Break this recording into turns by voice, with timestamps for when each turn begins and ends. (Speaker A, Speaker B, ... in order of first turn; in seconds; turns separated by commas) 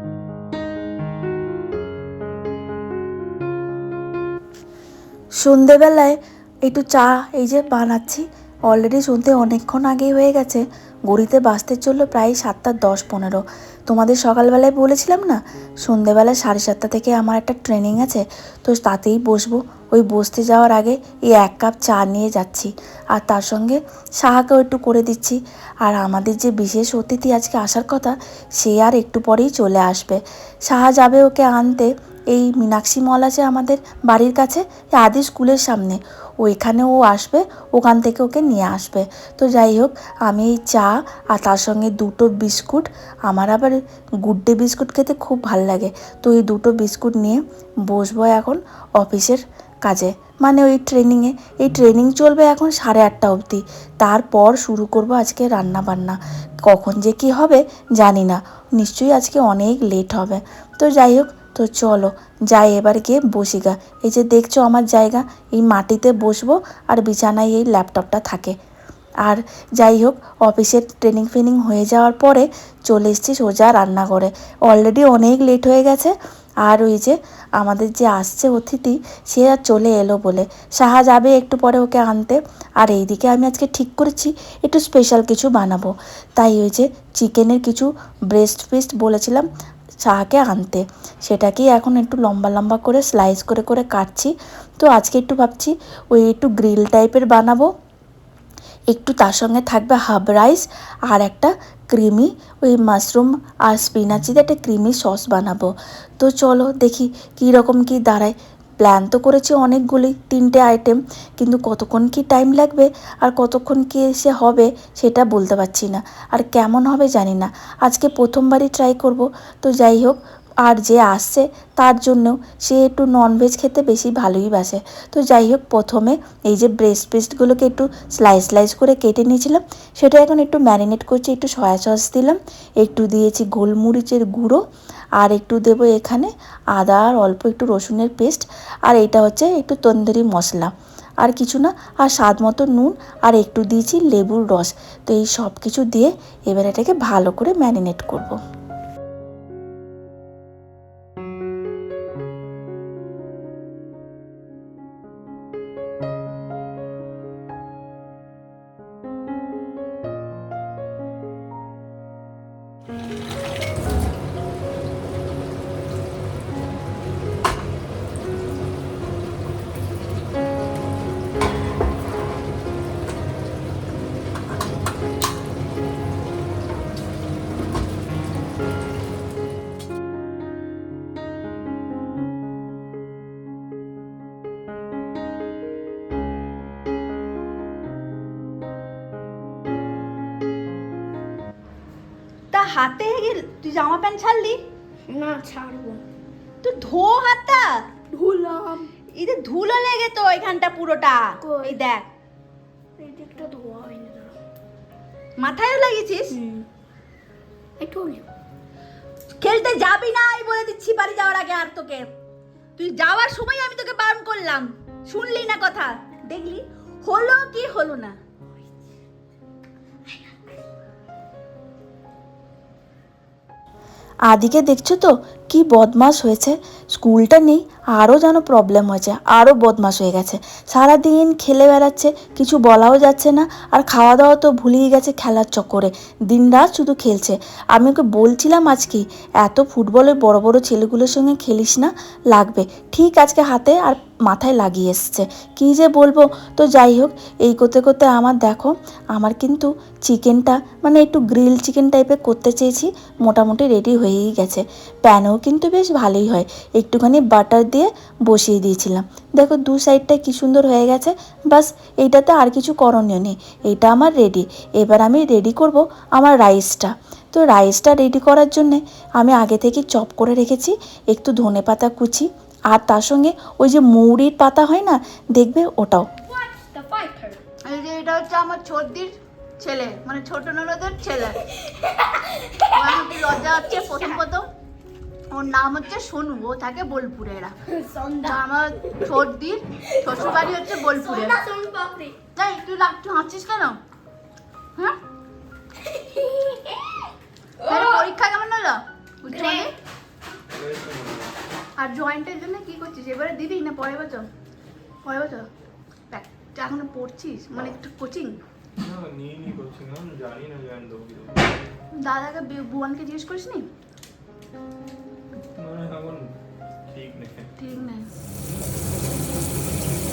Speaker A: 5.4-68.6, Speaker A: 69.2-89.5, Speaker A: 90.0-97.7, Speaker A: 98.9-134.6, Speaker A: 135.2-148.4, Speaker B: 192.5-194.6, Speaker C: 195.1-196.0, Speaker B: 196.6-202.1, Speaker C: 201.4-201.7, Speaker C: 203.0-204.3, Speaker B: 205.4-206.4, Speaker C: 206.3-206.6, Speaker C: 207.8-208.2, Speaker B: 209.4-212.1, Speaker B: 212.8-218.2, Speaker A: 224.3-276.1, Speaker C: 276.3-277.4, Speaker B: 277.6-281.4, Speaker B: 282.7-284.5, Speaker C: 283.8-284.1, Speaker B: 285.3-287.6, Speaker C: 287.7-288.4, Speaker B: 288.2-291.4, Speaker C: 290.9-292.1, Speaker B: 292.3-293.8, Speaker C: 296.1-296.9, Speaker B: 297.6-299.7, Speaker C: 297.6-298.0, Speaker D: 300.5-301.4, Speaker B: 301.8-304.3, Speaker B: 305.0-305.5, Speaker B: 306.1-308.4, Speaker D: 308.8-311.5, Speaker B: 311.9-313.7, Speaker D: 315.3-316.3, Speaker D: 316.9-317.5, Speaker B: 317.6-318.1